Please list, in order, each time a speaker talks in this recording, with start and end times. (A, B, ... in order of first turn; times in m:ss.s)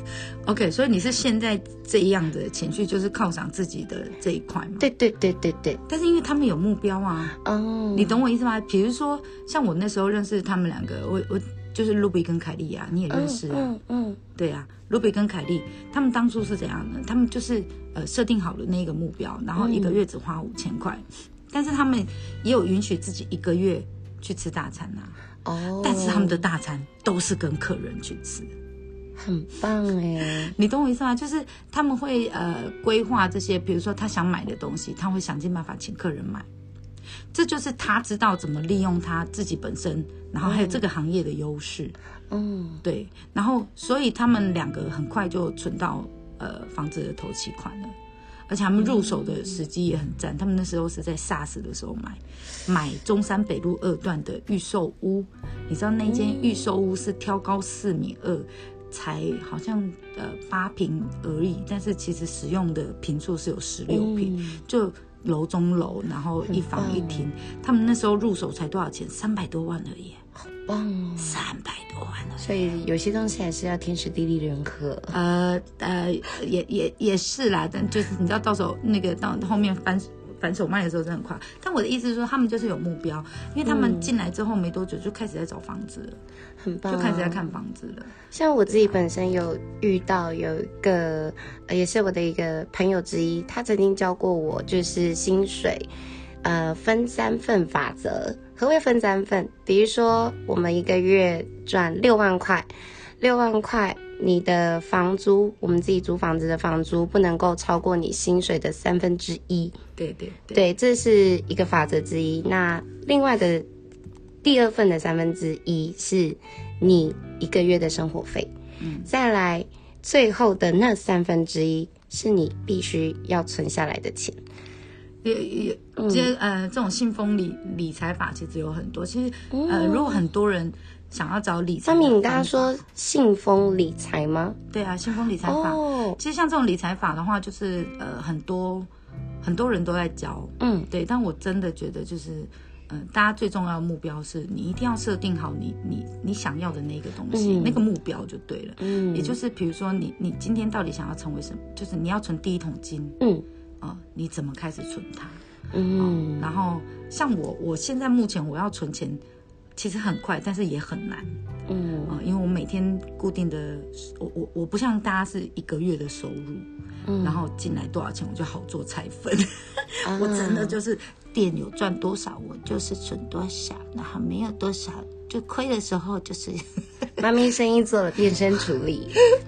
0:00.5-0:04.9 A
0:04.8-0:05.8 B
0:05.9-0:07.4 A
0:07.4-0:08.2 B
0:07.9-0:13.7 A
0:13.1-0:14.2 B
0:14.4-0:25.2 A
0:19.6-0:20.0 B
0:25.4-0:26.4 B
0:25.8-0:28.5 A
0:29.2-0:30.5 B
0:30.4-0:36.5 A
0:37.3-0:42.0 A
0:40.4-0:40.8 B
0:42.3-0:42.8 B
0:42.8-0:48.0 A
0:48.5-1:10.2 A
0:48.8-0:49.1 B
0:56.1-0:56.7 B
1:03.9-1:04.6 B
1:06.5-1:07.3 B
1:10.6-1:11.4 B
1:11.2-1:12.5 A
1:12.4-1:15.2 B
1:15.1-1:26.2 A
1:23.6-1:24.1 B
1:26.6-1:27.5 B
1:26.9-1:28.1 A
1:28.3-1:35.9 B
1:28.7-1:29.0 A
1:36.4-1:42.7 B
1:43.2-1:49.8 B
1:50.0-1:50.6 A
1:50.5-1:53.7 B
1:54.4-1:58.5 B
1:58.8-1:59.1 A
1:59.1-2:04.4 B
2:05.2-2:12.8 A
2:06.0-2:06.3 B
2:09.5-2:10.2 B
2:11.8-2:14.6 B
2:14.7-2:18.9 A
2:15.4-2:16.2 B
2:19.4-2:33.2 A
2:20.6-2:20.9 B
2:27.3-2:27.8 B
2:28.8-2:29.4 B
2:33.2-2:33.4 B
2:33.8-2:35.4 A
2:35.7-2:36.5 B
2:36.0-2:39.2 A
2:39.8-2:41.4 A
2:41.7-2:42.2 B
2:42.1-2:46.7 A
2:47.1-2:47.4 B
2:47.2-2:56.6 A
2:50.0-2:50.8 B
2:57.2-2:59.2 B